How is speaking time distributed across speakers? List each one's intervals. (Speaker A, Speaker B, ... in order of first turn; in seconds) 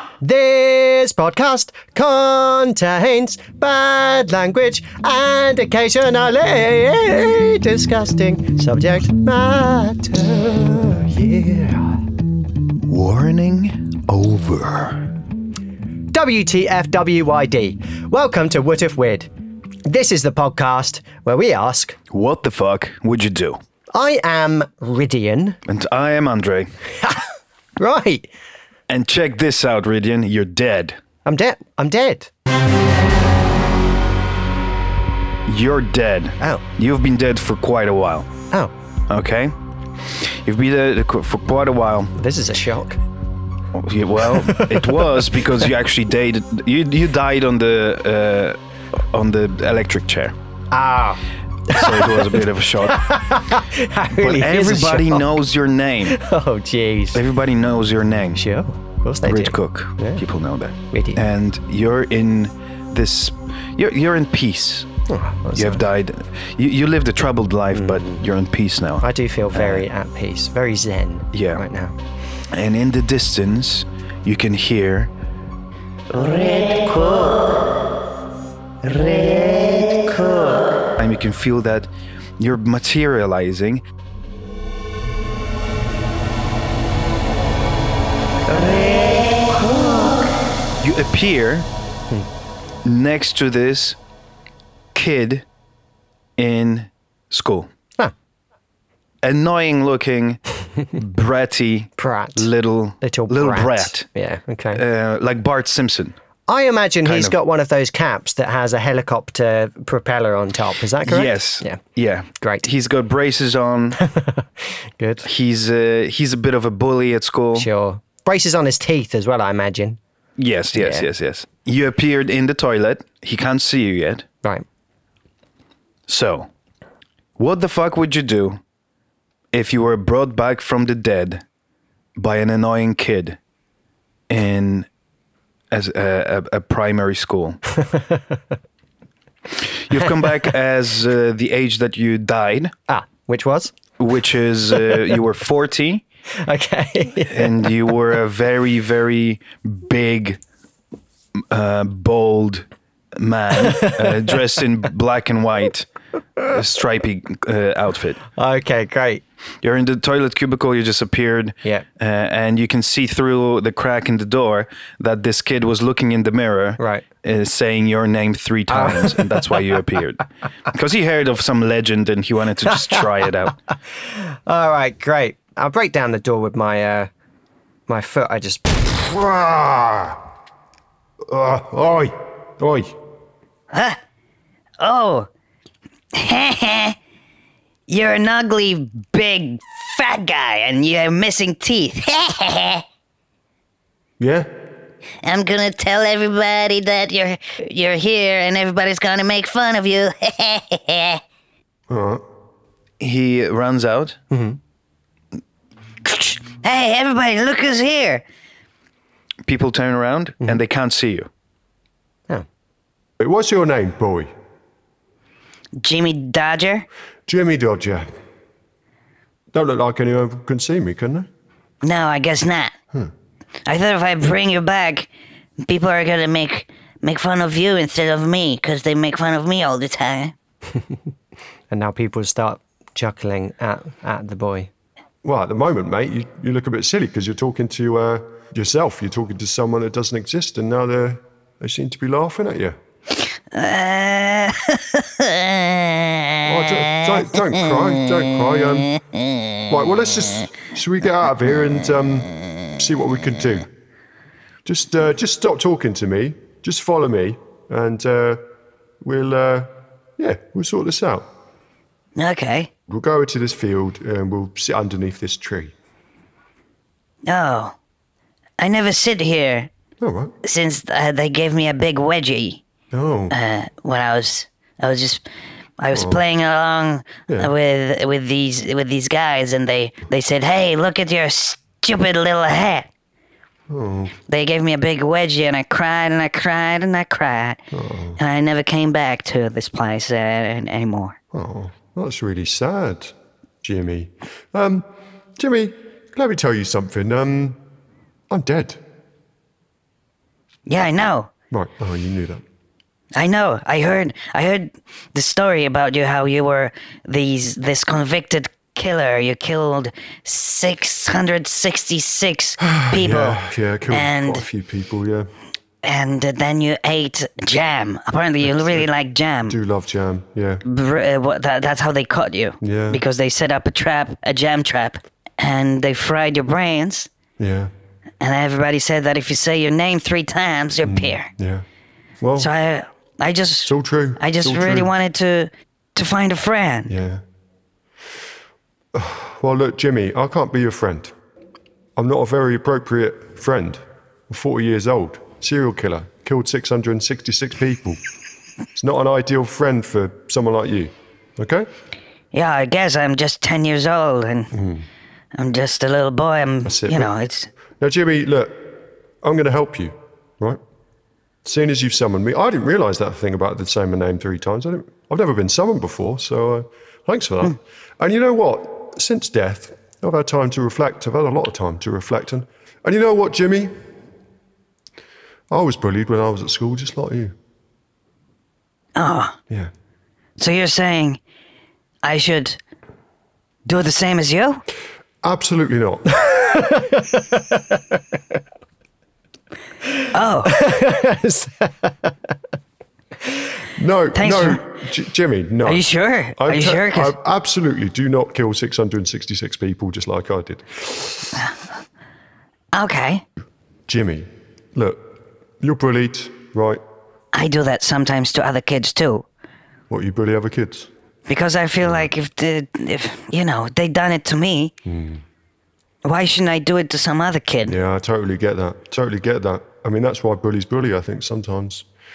Speaker A: 0.2-12.1, 16.1-19.3, 19.9-22.0, 23.9-25.6, 27.8-28.3, 31.2-32.3, 42.1-43.0, 44.4-45.3, 50.7-55.3, 56.0-57.2, 58.4-60.2, 60.9-61.2, 65.1-65.8, 67.7-68.2, 69.0-72.0, 88.5-89.4, 102.0-104.8, 106.5-111.8, 112.4-112.7, 114.0-114.5, 115.0-115.3, 117.5-120.0, 120.7-121.1, 137.8-138.4, 140.2-140.5, 142.9-143.8, 146.4-147.7, 153.7-154.3, 158.3-159.2, 166.8-167.1, 168.7-169.6, 174.0-177.1, 177.9-178.9, 204.3-204.6, 231.7-234.7, 386.3-388.0, 390.5-392.1
Speaker B: 12.9-15.1, 22.1-23.6, 25.7-26.7, 28.9-31.0, 35.5-38.3, 39.1-39.5, 40.1-42.1, 43.7-48.6, 49.1-50.4, 51.7-53.1, 54.2-56.2, 57.1-58.4, 59.2-64.9, 65.5-69.8, 71.3-71.6, 72.5-75.1, 81.0-83.8, 90.8-91.7, 92.8-94.0, 95.0-95.5, 96.4-97.7, 99.2-100.4, 101.0-104.1, 104.7-106.2, 107.0-107.4, 111.0-114.0, 115.2-117.7, 120.4-124.2, 126.1-126.5, 127.4-128.6, 129.5-131.4, 132.2-133.4, 134.3-134.9, 135.7-137.6, 139.5-142.7, 144.0-146.0, 147.3-150.4, 151.5-155.9, 156.4-158.2, 159.6-173.5, 203.0-204.2, 209.4-211.3
Speaker C: 76.1-77.6, 78.8-80.7, 89.4-89.8, 183.7-184.0, 184.8-185.3, 186.1-187.0, 187.9-192.8, 195.2-201.2, 206.1-208.2, 215.8-216.9, 221.8-222.7, 223.7-225.1, 225.6-230.3, 243.5-246.4, 262.2-262.7, 267.2-267.8, 268.6-269.7, 270.4-272.6, 273.3-275.2, 275.8-282.9, 284.3-287.6, 288.2-291.2, 300.7-301.3, 303.1-314.4, 315.8-319.6, 320.6-327.1, 328.2-331.3, 332.4-336.9, 352.3-354.6, 355.3-357.5, 379.0-379.4, 380.4-381.2, 382.0-382.6, 383.7-384.6, 390.1-390.5, 394.1-394.7, 395.6-397.1, 402.7-403.2, 407.3-409.3, 411.3-414.7, 416.0-417.8
Speaker D: 178.9-180.2, 181.3-183.0, 194.2-194.5, 201.9-202.2, 213.2-214.3, 217.3-218.1, 219.5-221.3, 235.2-242.8, 246.4-248.9, 249.7-253.7, 254.7-258.4, 259.0-261.3, 262.9-265.7, 270.0-270.3, 272.9-273.4, 275.9-276.2, 283.7-284.2, 287.7-288.2, 291.3-297.6, 298.3-298.8, 301.5-302.4, 312.6-315.3, 319.5-320.6, 322.6-323.0, 327.4-327.7, 330.9-331.6, 332.2-332.5, 333.7-334.9, 336.9-337.2, 338.9-341.1, 342.0-348.0, 348.8-351.7, 354.5-354.9, 356.6-357.1, 357.8-360.6, 361.4-373.7, 375.5-377.4, 385.2-386.3, 393.8-395.9, 396.4-401.4, 403.9-406.8, 409.9-410.9, 411.8-412.1, 414.9-415.2, 417.7-421.9